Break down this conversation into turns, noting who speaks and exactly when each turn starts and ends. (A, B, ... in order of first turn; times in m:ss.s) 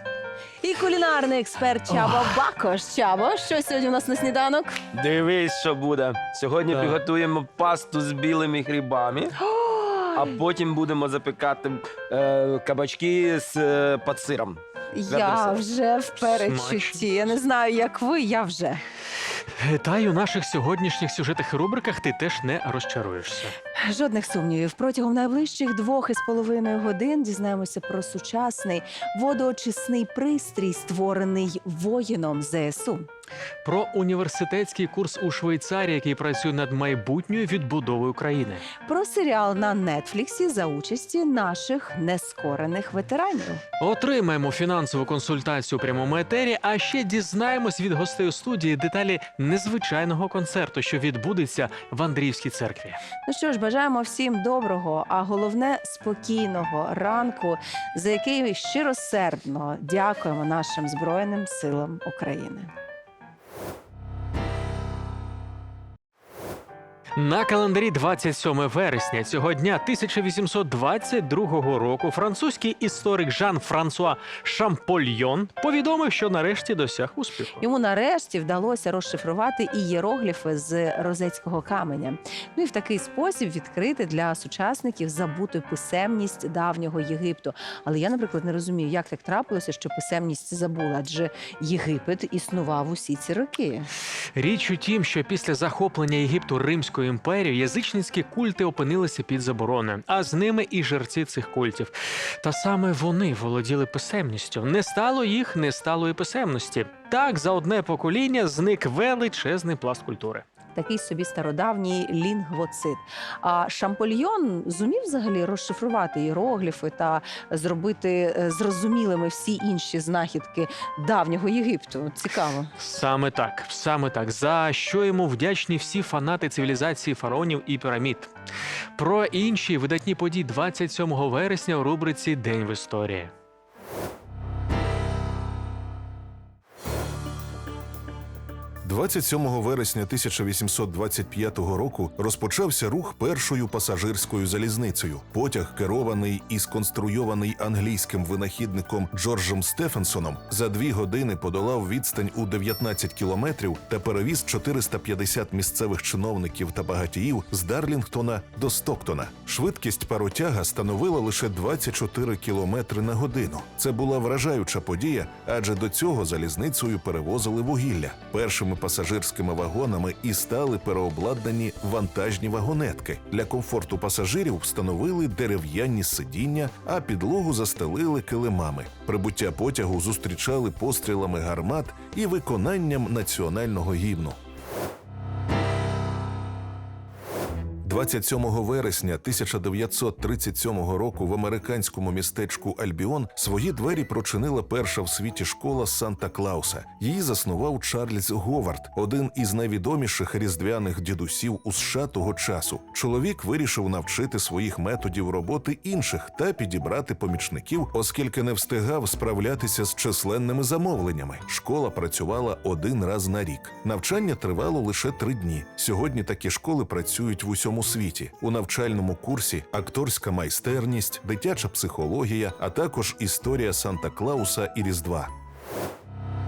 0:00.6-0:04.8 A
0:04.9-0:09.4 B
0:06.7-0:07.0 C
0:09.4-0:10.3 A
0:10.2-0:15.6 B
0:14.9-0:18.8 A
0:16.2-0:17.1 C
0:19.5-0:23.6 C
0:23.8-0:33.1 A
0:33.6-0:38.7 C
0:38.8-0:43.6 A
0:43.8-0:53.0 C
0:53.3-1:02.7 A
1:07.2-1:17.6 C
1:17.6-1:33.9 A
1:34.3-1:50.5 C
1:50.8-2:02.7 A
2:02.8-2:08.3 C
2:09.0-2:13.3 C
2:18.8-3:04.4 D
3:07.8-3:45.3 D